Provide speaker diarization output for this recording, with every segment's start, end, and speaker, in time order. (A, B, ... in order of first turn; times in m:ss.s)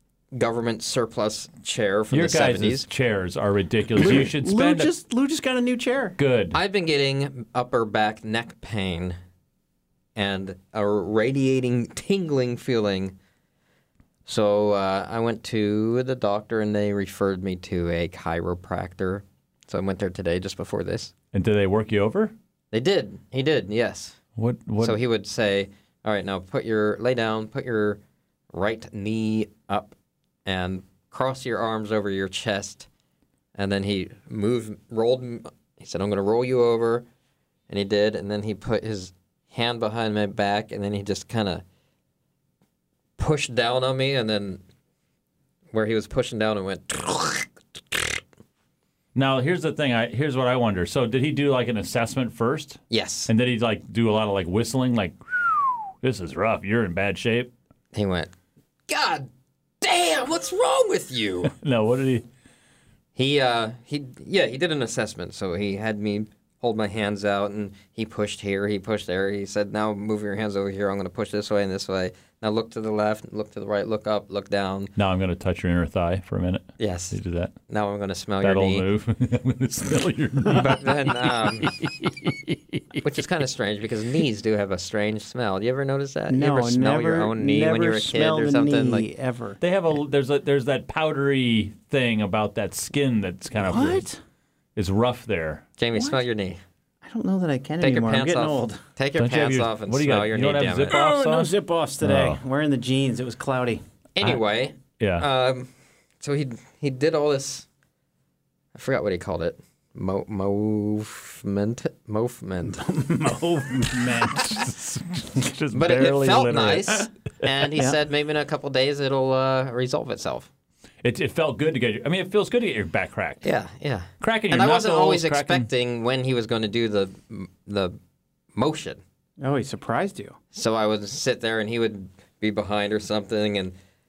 0:00.3-0:02.9 A
0:02.1-0:04.9 B
0:04.0-0:06.2 C
0:06.2-0:06.6 B
0:06.5-0:09.2 A
0:10.2-0:13.2 A
0:14.3-0:21.1 A
0:21.3-0:22.3 B
0:22.7-0:24.2 A
0:24.4-0:25.0 B
0:24.8-0:28.0 A
0:28.5-0:29.9 A
0:30.4-0:32.9 A
0:33.6-0:37.1 A
0:37.7-0:41.6 A
0:43.2-0:44.6 A
0:45.7-0:48.2 A
0:49.2-0:57.5 B
0:52.9-0:53.3 A
0:57.9-0:58.3 A
0:58.9-0:59.3 A
0:59.8-1:01.5 A
1:01.5-1:02.2 B
1:03.2-1:14.9 A
1:15.0-1:17.5 B
1:16.8-1:17.2 A
1:17.7-1:18.9 A
1:18.4-1:23.0 B
1:20.5-1:21.7 A
1:23.0-1:29.1 A
1:26.3-1:29.6 C
1:29.6-1:34.1 B
1:33.6-1:34.2 C
1:34.8-1:35.6 B
1:35.8-1:36.6 A
1:35.9-1:36.2 C
1:37.0-1:38.8 C
1:37.8-1:41.0 A
1:39.2-1:42.4 B
1:40.9-1:43.8 C
1:44.2-1:47.7 A
1:45.0-1:45.3 B
1:48.7-1:52.8 A
1:52.6-1:54.6 C
1:54.1-1:57.1 B
1:55.7-2:00.5 A
2:01.0-2:03.5 B
2:03.4-2:08.0 A
2:04.2-2:05.7 B
2:08.6-2:09.0 A
2:09.4-2:10.4 C
2:10.5-2:13.8 A